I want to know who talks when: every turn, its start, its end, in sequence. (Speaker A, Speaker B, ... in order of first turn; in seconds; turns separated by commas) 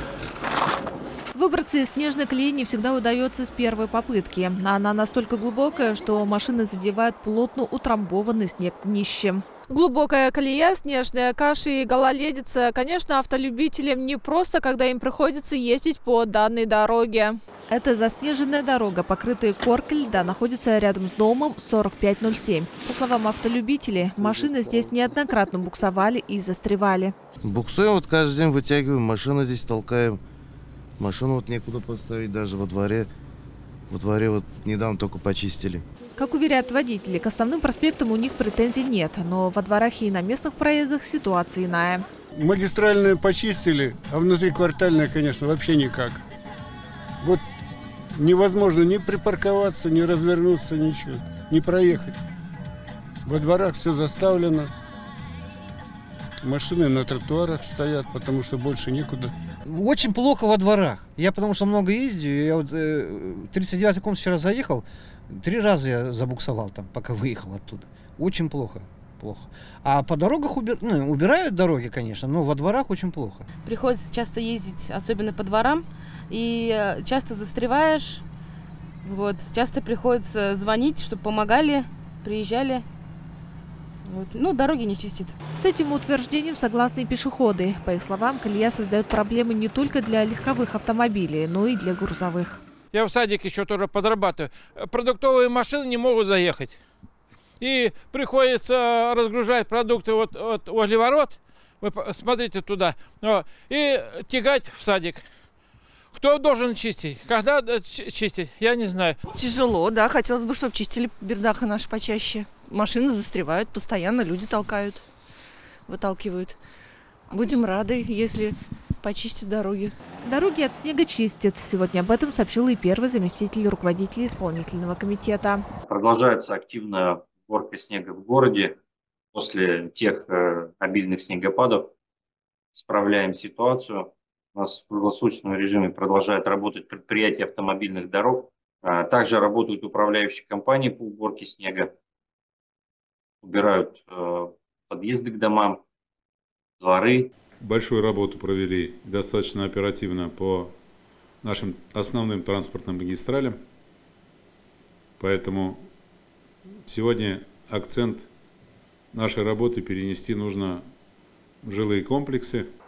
Speaker A: 1.3-27.1, Speaker B: 27.4-30.2, Speaker B: 31.0-33.1, Speaker B: 33.9-35.8, Speaker A: 36.2-42.1, Speaker C: 42.4-46.2, Speaker C: 48.1-52.2, Speaker C: 53.2-54.7, Speaker C: 56.4-59.3, Speaker D: 59.7-73.5, Speaker E: 73.7-75.8, Speaker E: 76.3-78.2, Speaker E: 79.1-82.8, Speaker E: 84.2-85.2, Speaker A: 85.6-92.6, Speaker F: 92.9-96.8, Speaker F: 97.6-105.2, Speaker F: 106.1-109.2, Speaker G: 109.4-115.0, Speaker G: 115.9-116.6, Speaker G: 117.3-119.9, Speaker A: 120.2-125.7, Speaker H: 125.9-128.8, Speaker H: 129.3-131.9, Speaker H: 132.7-141.9, Speaker H: 143.4-145.8, Speaker H: 146.8-147.3, Speaker I: 147.6-150.8, Speaker I: 151.4-153.6, Speaker I: 155.2-155.9, Speaker I: 156.9-158.3, Speaker I: 159.1-160.9, Speaker I: 161.6-162.7